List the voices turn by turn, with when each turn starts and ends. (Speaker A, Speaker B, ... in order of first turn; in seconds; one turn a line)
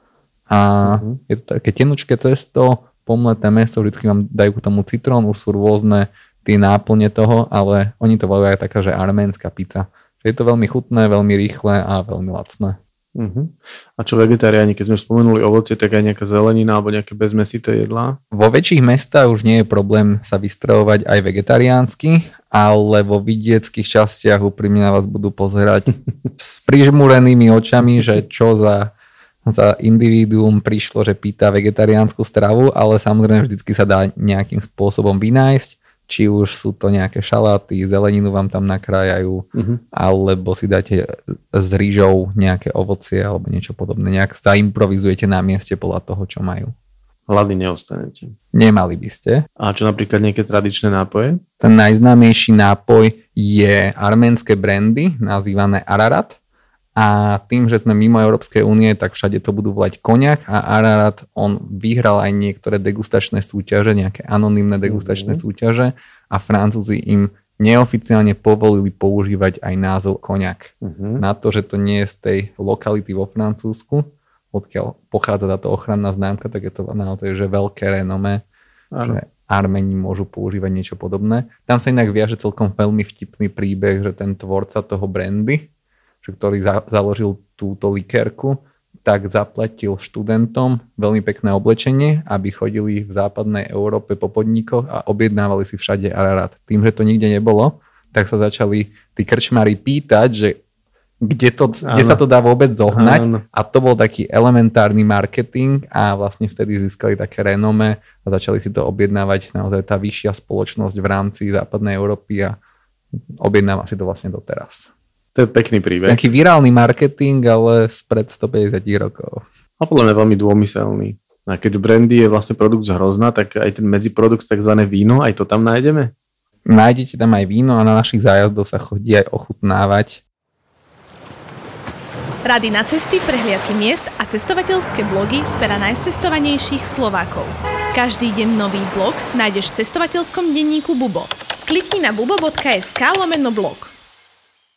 Speaker A: 0.5-12.8
Speaker B: 0.9-1.1
Speaker B: 13.2-18.2
Speaker A: 18.3-28.9
Speaker A: 29.5-46.7
Speaker B: 39.5-39.8
Speaker B: 47.3-48.4
Speaker A: 48.5-49.5
Speaker B: 49.6-51.4
Speaker A: 51.6-56.4
Speaker A: 57.0-78.4
Speaker B: 64.9-65.4
Speaker B: 70.8-71.2
Speaker B: 78.9-79.2
Speaker A: 79.0-85.7
Speaker A: 86.2-100.6
Speaker A: 101.2-112.6
Speaker B: 101.8-102.2
Speaker B: 102.9-103.4
Speaker A: 113.4-114.9
Speaker B: 115.3-116.2
Speaker A: 116.1-119.4
Speaker B: 119.8-126.1
Speaker A: 126.7-130.2
Speaker C: 132.4-143.9